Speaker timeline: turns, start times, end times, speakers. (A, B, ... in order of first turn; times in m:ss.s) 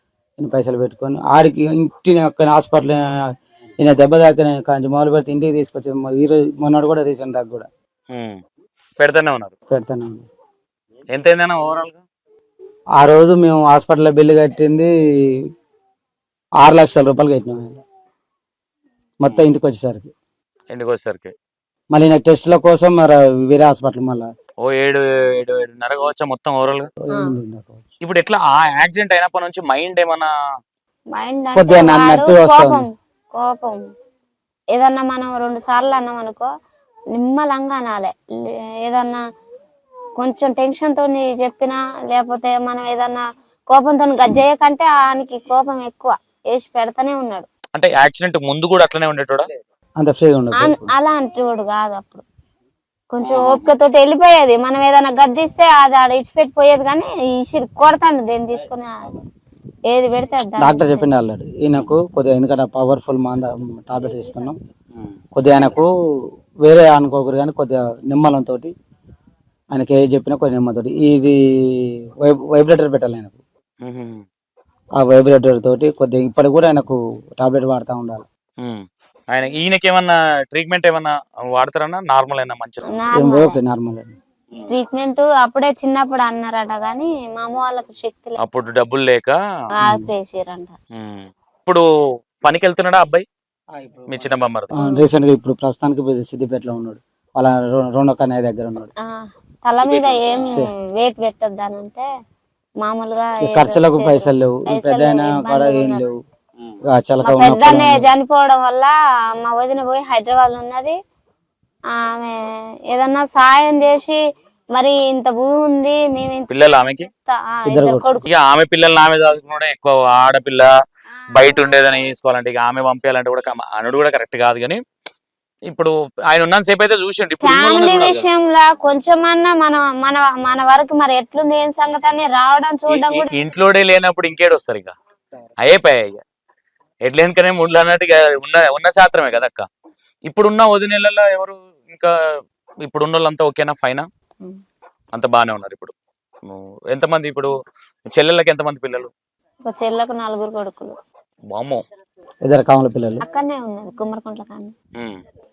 0:00.4-0:03.2 A
0:03.8-0:07.7 A
0:08.1-0:08.4 B
0:09.0-0:09.5 B
0:09.7-0:10.3 A
0:11.1-0:12.0 B
0:13.0-0:15.4 A
0:16.6-0:17.8 A
0:19.2-0:20.1 A
0:19.3-0:19.5 B
0:20.7-0:21.3 B
0:21.9-0:24.3 A
0:24.6-0:26.9 B
0:27.0-0:27.8 A
0:28.0-0:30.3 B
0:31.2-0:33.8 C
0:31.6-0:32.8 A
0:34.8-0:36.5 C
0:37.1-0:39.2 C
0:40.2-0:47.5 C
0:47.8-0:49.5 B
0:50.0-0:50.9 A
0:50.6-0:52.2 C
0:53.1-0:59.2 C
0:59.9-1:01.1 C
1:00.6-1:04.6 A
1:05.4-1:05.9 A
1:06.6-1:08.7 A
1:09.7-1:13.4 A
1:13.8-1:14.2 B
1:15.0-1:18.2 A
1:18.6-1:22.9 B
1:22.9-1:23.6 C
1:23.2-1:24.1 A
1:24.7-1:28.4 C
1:28.4-1:29.4 B
1:29.8-1:30.8 C
1:31.0-1:31.8 B
1:32.4-1:33.2 B
1:33.7-1:38.9 A
1:34.1-1:34.8 B
1:34.8-1:35.1 C
1:39.1-1:42.0 C
1:39.9-1:40.5 B
1:40.5-1:40.7 A
1:42.8-1:46.1 C
1:43.4-1:46.1 A
1:46.9-1:48.1 A
1:47.2-1:48.9 C
1:49.4-1:51.0 C
1:52.0-1:52.4 C
1:52.9-1:54.2 C
1:54.8-1:56.5 C
1:56.5-1:57.1 B
1:57.1-1:58.3 C
1:57.7-1:58.1 A
1:58.2-2:00.7 B
2:01.4-2:04.8 B
2:05.7-2:08.3 B
2:07.4-2:13.3 C
2:12.9-2:14.9 B
2:15.6-2:16.2 B
2:17.0-2:19.7 B
2:20.3-2:22.1 B
2:22.8-2:24.1 B
2:25.1-2:25.9 B
2:26.5-2:27.5 B
2:28.1-2:29.1 B
2:29.6-2:31.0 C
2:31.5-2:31.8 B
2:32.4-2:33.2 A
2:33.2-2:34.7 C